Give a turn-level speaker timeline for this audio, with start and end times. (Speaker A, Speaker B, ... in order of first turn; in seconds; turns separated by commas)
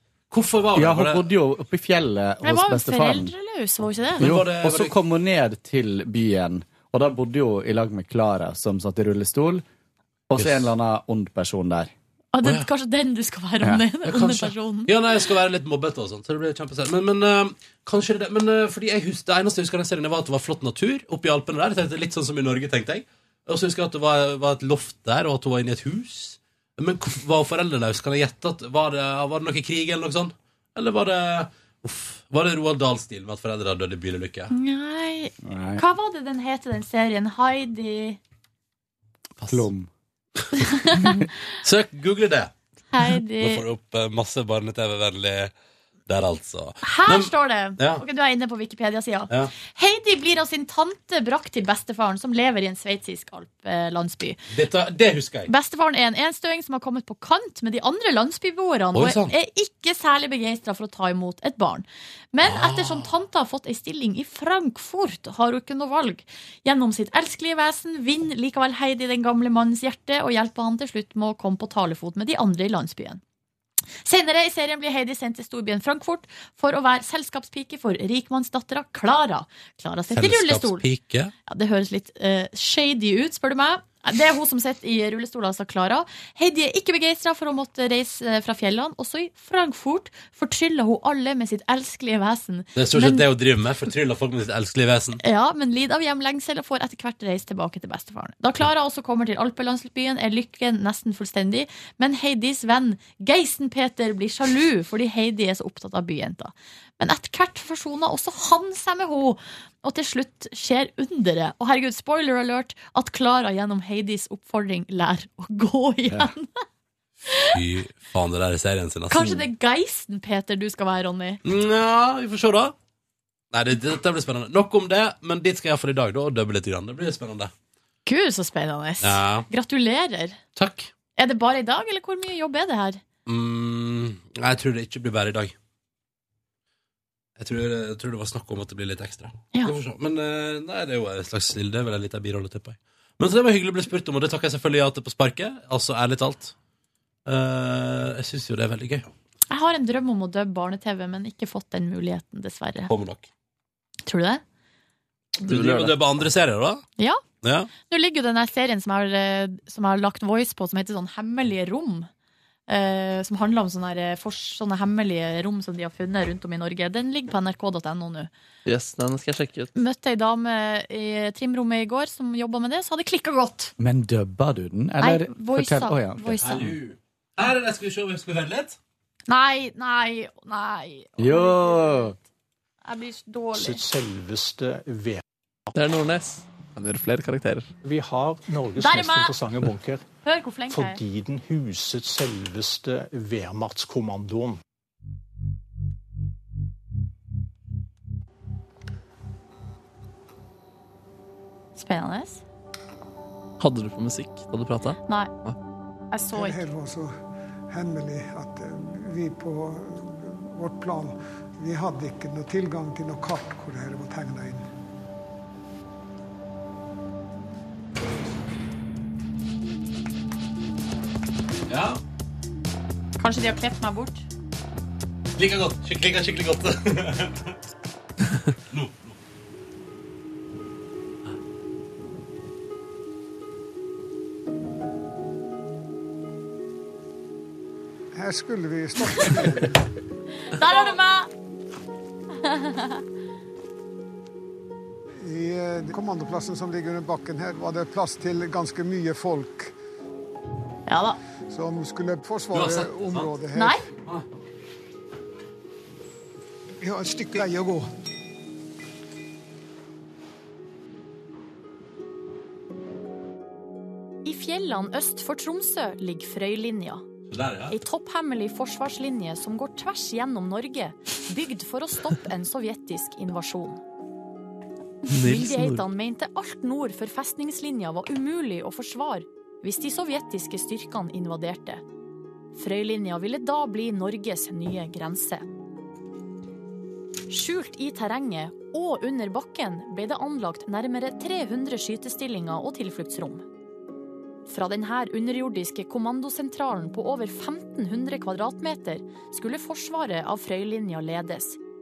Speaker A: 0.3-1.3, Speaker B: 0.8-3.3, Speaker C: 2.4-4.3, Speaker A: 4.2-5.0, Speaker B: 4.2-9.7, Speaker B: 10.3-11.9, Speaker A: 10.4-10.7, Speaker C: 12.3-15.2, Speaker A: 14.0-34.5, Speaker C: 34.5-38.2, Speaker B: 35.4-35.8, Speaker A: 39.4-39.7, Speaker B: 39.5-39.9, Speaker C: 40.6-41.3, Speaker A: 41.6-42.5, Speaker C: 42.9-43.6, Speaker A: 43.4-45.5, Speaker A: 46.1-48.0, Speaker C: 46.8-54.4, Speaker A: 54.5-55.5, Speaker C: 55.5-73.2, Speaker A: 59.0-59.3, Speaker A: 62.4-63.1, Speaker C: 74.0-80.8, Speaker A: 80.2-81.3, Speaker C: 81.5-93.2, Speaker A: 92.8-95.2, Speaker C: 95.2-116.6, Speaker C: 117.3-117.6, Speaker A: 117.5-119.5, Speaker C: 119.1-121.4, Speaker A: 121.5-122.7, Speaker A: 123.5-127.5, Speaker C: 128.1-130.4, Speaker A: 129.0-129.5, Speaker A: 130.6-130.9, Speaker C: 131.2-133.0, Speaker A: 133.3-135.5, Speaker A: 137.4-146.5, Speaker A: 147.3-149.1, Speaker C: 149.5-152.9, Speaker A: 152.9-153.3, Speaker C: 154.1-154.4, Speaker A: 155.4-156.8, Speaker D: 155.5-155.9, Speaker A: 157.4-157.7, Speaker C: 157.8-162.1, Speaker C: 162.7-168.3, Speaker D: 168.7-169.7, Speaker C: 169.8-173.7, Speaker B: 173.8-176.7, Speaker C: 175.0-176.7, Speaker A: 176.4-178.8, Speaker C: 179.3-182.1, Speaker B: 181.2-182.2, Speaker C: 182.8-183.8, Speaker E: 183.5-185.2, Speaker D: 185.8-187.7, Speaker E: 187.8-190.0, Speaker C: 188.8-189.3, Speaker C: 190.2-191.0, Speaker E: 190.7-194.6, Speaker C: 201.8-202.4, Speaker D: 203.6-205.6, Speaker C: 206.1-206.7, Speaker F: 206.3-207.1, Speaker F: 207.7-214.7, Speaker A: 221.7-222.0, Speaker C: 223.2-224.2, Speaker A: 225.4-227.5, Speaker A: 228.7-229.2, Speaker F: 238.1-239.8, Speaker C: 240.5-241.3, Speaker C: 242.4-243.0, Speaker F: 245.2-249.8, Speaker C: 250.9-251.2, Speaker F: 251.5-253.8, Speaker A: 252.5-253.3, Speaker C: 253.5-253.8, Speaker F: 256.8-257.9, Speaker C: 264.2-267.0, Speaker A: 267.3-267.8, Speaker C: 267.7-273.8, Speaker C: 275.1-281.8, Speaker D: 275.1-275.9, Speaker C: 282.6-285.5, Speaker C: 287.3-293.4, Speaker C: 294.5-301.6